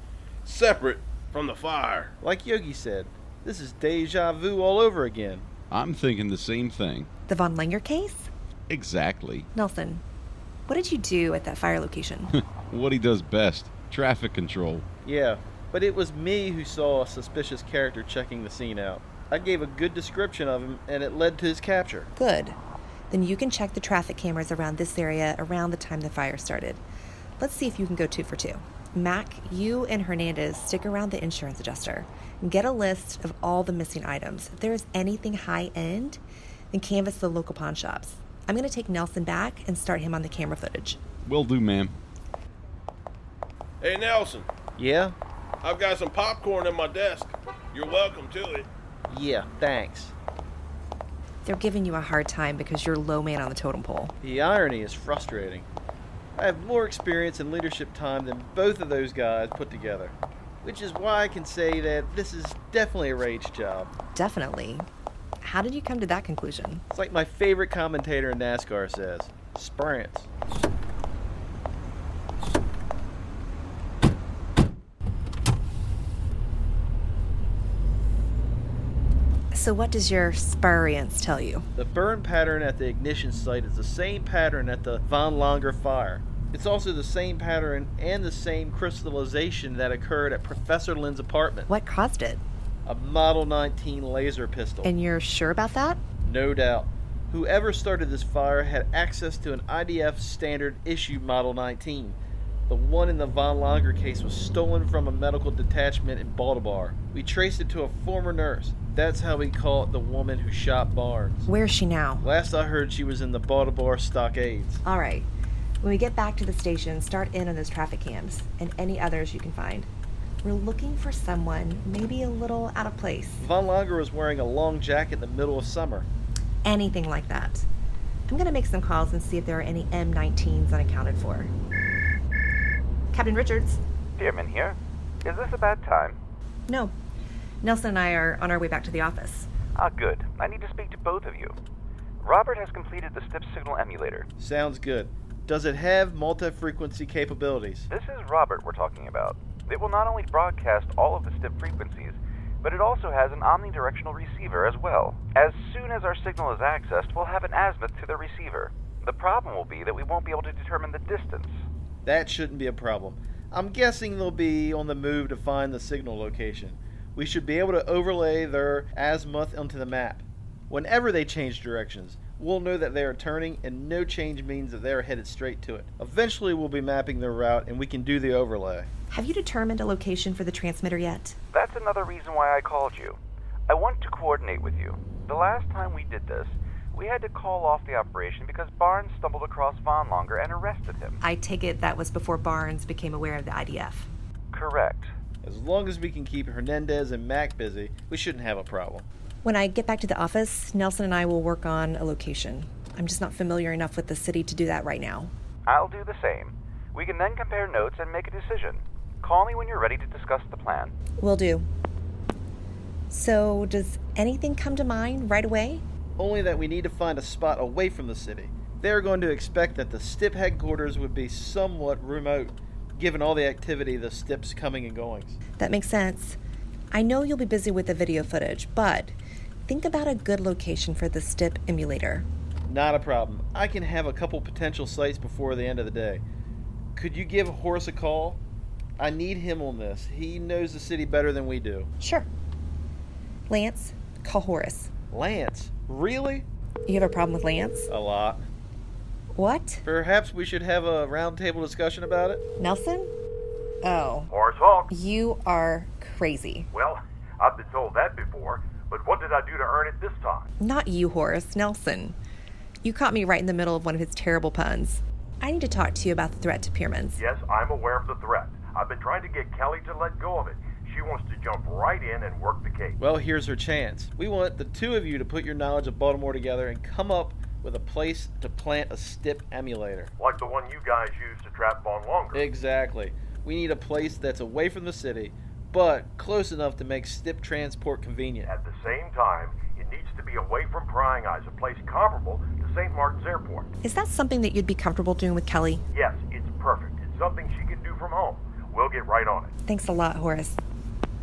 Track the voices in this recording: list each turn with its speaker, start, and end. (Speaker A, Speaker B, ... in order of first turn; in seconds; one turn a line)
Speaker A: 0.4-2.1
Speaker B: 2.2-5.5
Speaker C: 5.7-7.1
Speaker D: 7.3-8.3
Speaker C: 8.7-9.5
Speaker D: 9.5-10.0
Speaker D: 10.7-12.3
Speaker C: 12.4-14.8
Speaker B: 15.0-22.1
Speaker D: 22.1-22.6
Speaker D: 23.1-26.8
Speaker D: 27.4-36.2
Speaker D: 36.7-41.0
Speaker C: 41.2-42.0
Speaker A: 43.8-44.5
Speaker B: 44.8-45.1
Speaker A: 45.6-48.7
Speaker B: 49.1-50.1
Speaker D: 51.4-54.1
Speaker B: 54.2-55.7
Speaker B: 56.4-63.9
Speaker D: 64.1-64.9
Speaker D: 65.4-66.8
Speaker B: 66.9-70.3
Speaker D: 79.5-81.6
Speaker B: 81.8-91.7
Speaker D: 91.7-92.4
Speaker B: 92.8-94.9
Speaker D: 94.8-96.0
Speaker B: 96.2-102.2
Speaker B: 102.7-111.5
Speaker D: 111.5-112.2
Speaker B: 112.2-114.8
Speaker D: 114.8-115.3
Speaker D: 115.8-119.9
Speaker D: 120.4-123.4
Speaker B: 123.4-126.1
Speaker D: 126.6-127.7
Speaker D: 128.3-131.5
Speaker D: 133.1-133.8
Speaker E: 134.2-136.2
Speaker D: 136.7-136.9
Speaker D: 137.6-139.5
Speaker E: 139.7-141.6
Speaker E: 142.2-144.3
Speaker B: 144.4-147.9
Speaker E: 147.9-161.6
Speaker B: 162.0-178.9
Speaker D: 179.1-181.3
Speaker E: 181.5-191.2
Speaker D: 191.2-194.1
Speaker E: 194.5-195.1
Speaker B: 195.4-199.1
Speaker D: 199.4-205.3
Speaker E: 205.7-210.9
Speaker D: 211.2-211.7
Speaker D: 213.1-215.8
Speaker B: 216.2-225.3
Speaker D: 225.6-226.4
Speaker D: 226.9-229.1
Speaker D: 229.7-232.2
Speaker B: 232.7-236.2
Speaker B: 236.9-238.4
Speaker B: 239.0-241.9
Speaker D: 242.0-242.3
Speaker D: 243.5-244.9
Speaker B: 245.1-246.4
Speaker D: 246.9-247.9
Speaker B: 247.9-248.4
Speaker D: 249.3-249.8
Speaker B: 249.8-252.4
Speaker D: 252.6-253.1
Speaker D: 253.8-254.3
Speaker F: 254.3-254.9
Speaker D: 254.9-256.7
Speaker F: 256.7-260.5
Speaker D: 260.6-262.1
Speaker D: 262.8-267.2
Speaker F: 267.1-273.0
Speaker B: 273.0-280.1
Speaker F: 280.2-282.5
Speaker B: 282.3-288.5
Speaker F: 288.4-293.7
Speaker D: 293.8-295.8
Speaker F: 295.9-299.5
Speaker D: 299.6-300.6